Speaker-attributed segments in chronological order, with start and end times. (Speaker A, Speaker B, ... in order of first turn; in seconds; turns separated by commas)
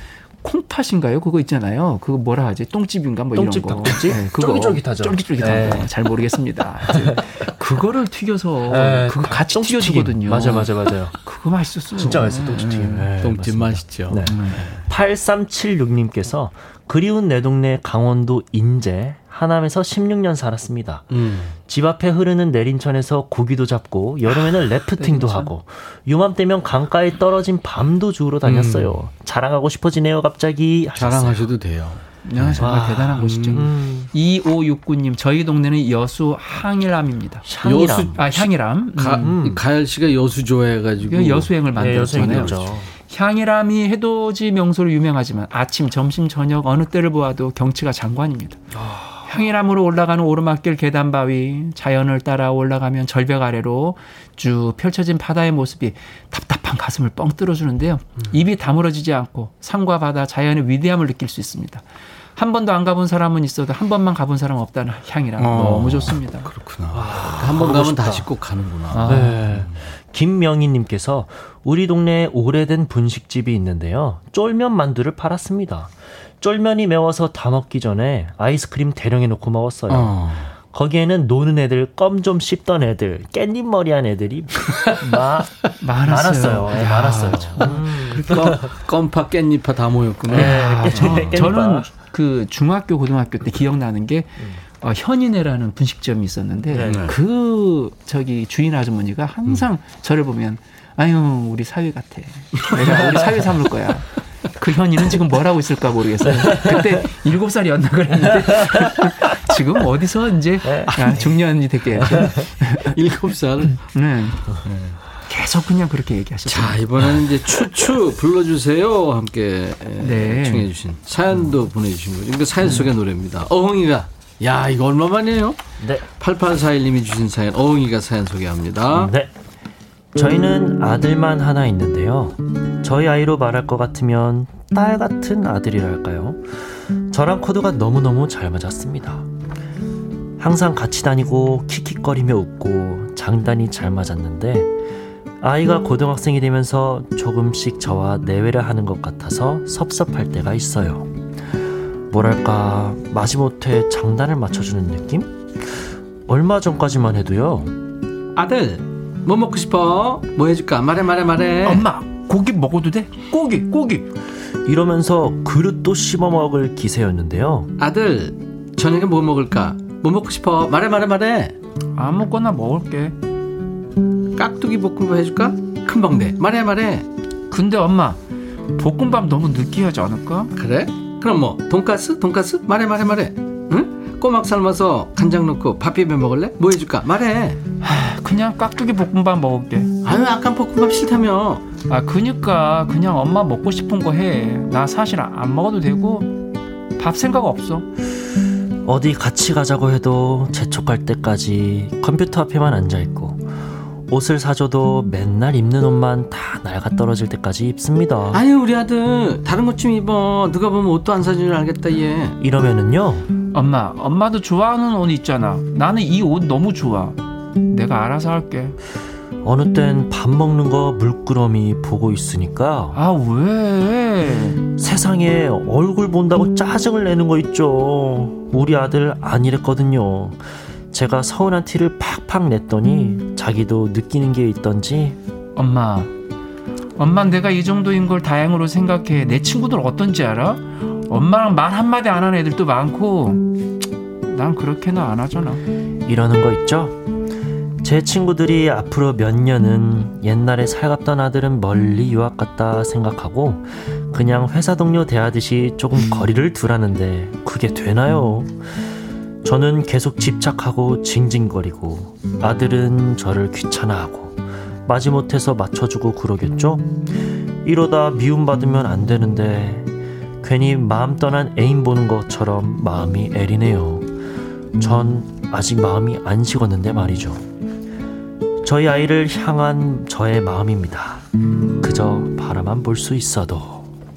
Speaker A: 0.4-13.1, Speaker B: 3.3-5.9, Speaker B: 6.9-7.2, Speaker B: 8.7-11.2, Speaker B: 11.9-31.5, Speaker C: 13.2-14.8, Speaker A: 14.2-14.6, Speaker C: 21.1-21.6, Speaker A: 24.9-25.5, Speaker C: 28.4-29.0, Speaker C: 30.9-33.7, Speaker A: 32.2-37.5, Speaker B: 32.6-34.1, Speaker B: 37.4-38.2, Speaker C: 37.6-42.8, Speaker A: 38.1-39.4, Speaker B: 39.1-39.6, Speaker A: 41.0-48.6, Speaker B: 41.7-42.9, Speaker B: 48.7-49.3, Speaker A: 49.2-61.8, Speaker A: 62.4-66.5, Speaker C: 65.4-69.7, Speaker B: 66.9-68.3, Speaker A: 68.9-69.6, Speaker B: 69.0-88.7, Speaker C: 79.9-80.5, Speaker A: 85.8-88.6, Speaker C: 88.1-91.5, Speaker B: 90.3-91.9, Speaker A: 90.3-113.0, Speaker B: 96.7-97.1, Speaker C: 96.8-97.2, Speaker B: 106.4-106.8, Speaker B: 110.6-110.9, Speaker C: 112.0-113.9, Speaker B: 112.1-112.4, Speaker A: 113.6-114.6, Speaker C: 114.5-115.0, Speaker A: 115.2-117.2, Speaker C: 116.5-125.6, Speaker A: 120.0-120.7, Speaker C: 126.2-129.1, Speaker B: 128.9-129.3, Speaker B: 130.1-139.2, Speaker B: 140.4-144.7, Speaker B: 145.4-151.1, Speaker B: 152.1-157.7, Speaker C: 158.3-161.9, Speaker A: 161.6-164.1, Speaker B: 164.6-167.7, Speaker C: 167.8-171.6, Speaker A: 172.0-173.1, Speaker C: 174.3-177.1, Speaker A: 177.5-178.2, Speaker A: 178.8-180.5, Speaker C: 180.5-187.6, Speaker A: 187.8-189.9, Speaker C: 190.0-191.6, Speaker A: 191.9-196.3, Speaker A: 197.0-197.8, Speaker B: 198.8-203.5, Speaker B: 204.1-208.4, Speaker C: 208.3-212.4, Speaker B: 212.4-213.3, Speaker A: 213.5-217.2, Speaker A: 217.7-218.8, Speaker B: 219.4-223.0, Speaker A: 222.9-224.6, Speaker B: 224.8-235.2, Speaker A: 235.6-236.1, Speaker A: 237.0-243.5, Speaker A: 244.3-245.6, Speaker B: 246.1-247.0, Speaker B: 247.8-258.7, Speaker B: 259.4-267.0, Speaker B: 267.6-269.9, Speaker B: 270.4-274.1, Speaker B: 274.8-277.4, Speaker B: 278.6-281.2, Speaker B: 281.8-283.9